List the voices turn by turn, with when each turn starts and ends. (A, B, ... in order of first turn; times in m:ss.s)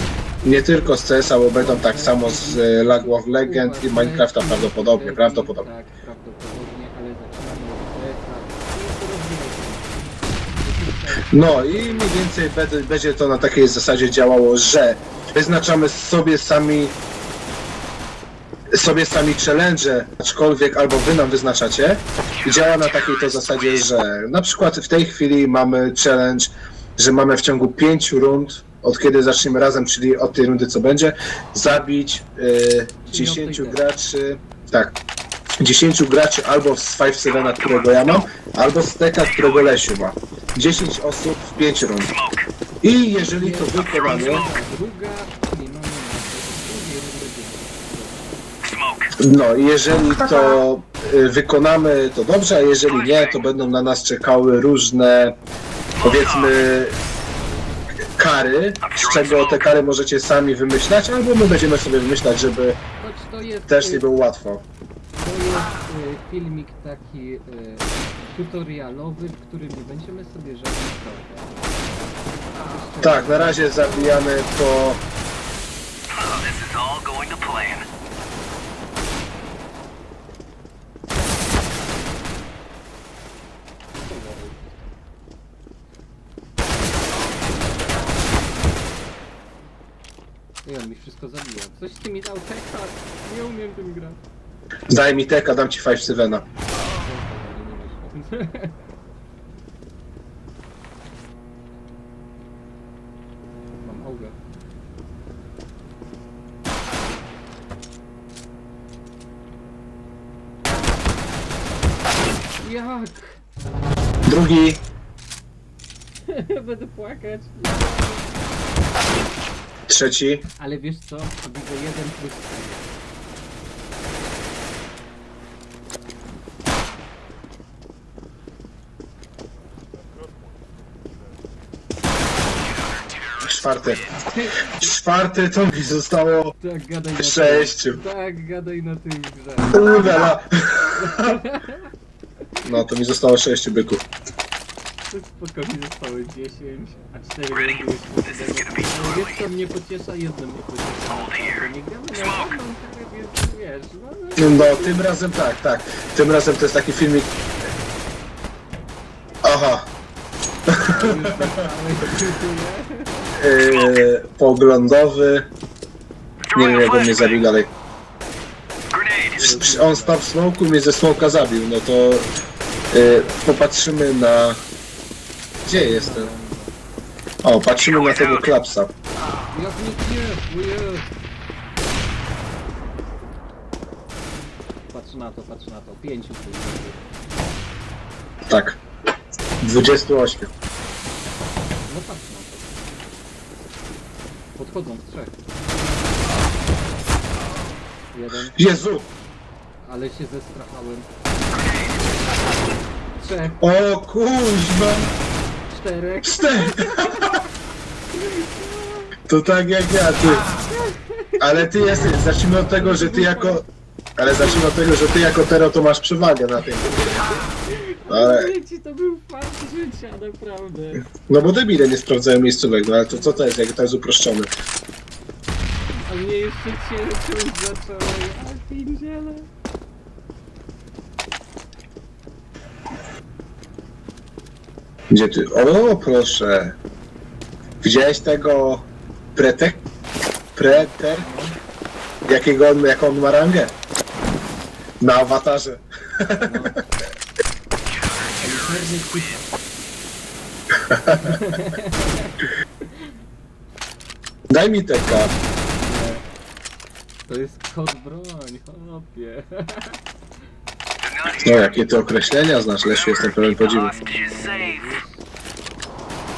0:00.4-0:05.7 A
0:01.6-0:12.3 B
0:11.3-0:17.0 A
0:18.7-0:34.9 A
0:33.1-0:33.8 B
0:35.6-0:42.1 A
0:37.2-0:38.3 C
0:39.2-0:39.8 C
0:42.0-0:42.5 C
0:42.8-0:44.5 A
0:43.2-0:48.3 B
0:43.8-0:44.4 C
0:48.6-0:49.1 C
0:49.2-0:55.4 A
0:52.9-0:53.5 C
0:56.0-0:56.6 C
0:56.0-0:57.0 A
0:58.2-1:02.8 A
0:58.8-0:59.7 C
1:03.0-1:04.0 B
1:03.7-1:04.6 A
1:05.2-1:11.7 B
1:12.6-1:14.5 B
1:13.0-1:15.0 A
1:16.1-1:17.9 C
1:24.0-1:24.9 B
1:30.6-1:34.2 B
1:34.9-1:36.4 A
1:37.0-1:38.7 B
1:43.8-1:44.4 B
1:52.6-1:53.4 B
1:54.3-1:54.8 A
1:56.3-1:58.4 B
1:59.9-2:00.4 A
2:00.6-2:02.9 B
2:13.4-2:14.1 A
2:14.2-2:14.9 B
2:14.7-2:16.5 A
2:16.6-2:20.3 B
2:17.2-2:18.0 A
2:19.7-2:21.4 A
2:21.0-2:21.9 B
2:22.6-2:24.0 A
2:25.1-2:35.2 B
2:27.5-2:29.4 C
2:31.1-2:32.6 C
2:34.4-2:37.3 A
2:39.4-2:39.9 A
2:40.7-2:41.6 A
2:40.9-2:43.4 B
2:43.4-2:45.5 A
2:43.7-2:44.0 C
2:46.5-2:47.5 C
2:46.5-2:47.7 A
2:48.9-2:49.4 C
2:49.4-2:50.2 B
2:49.4-2:52.3 A
2:52.9-2:54.6 A
2:55.6-2:56.3 A
2:55.6-2:56.8 B
2:57.4-2:58.9 A
2:57.8-2:58.5 C
2:59.5-3:01.1 B
3:04.9-3:07.0 B
3:08.5-3:08.8 A
3:09.6-3:10.5 A
3:11.9-3:12.8 B
3:14.6-3:15.4 B
3:18.1-3:18.6 B
3:18.6-3:19.1 A
3:19.8-3:21.1 B
3:21.5-3:22.0 C
3:23.2-3:23.6 B
3:23.6-3:25.1 A
3:25.7-3:27.4 B
3:26.2-3:27.4 A
3:28.1-3:29.2 B
3:29.3-3:30.5 A
3:30.7-3:31.9 B
3:31.4-3:33.6 A
3:32.5-3:33.6 B
3:34.2-3:37.0 A
3:34.2-3:34.7 B
3:36.7-3:41.1 B
3:38.1-3:38.5 A
3:41.2-3:44.5 A
3:43.1-3:43.4 B
3:46.0-3:49.5 B
3:55.1-3:56.8 A
3:57.8-3:59.8 A
4:00.6-4:01.3 A
4:00.7-4:01.6 B
4:02.3-4:03.7 A
4:05.0-4:06.7 A
4:06.4-4:06.9 B
4:08.4-4:09.5 B
4:11.0-4:12.5 B
4:11.1-4:11.4 A
4:14.5-4:15.3 A
4:15.8-4:16.2 B
4:17.3-4:20.0 B
4:21.0-4:21.7 C
4:21.4-4:24.0 A
4:22.8-4:25.0 C
4:23.9-4:25.2 B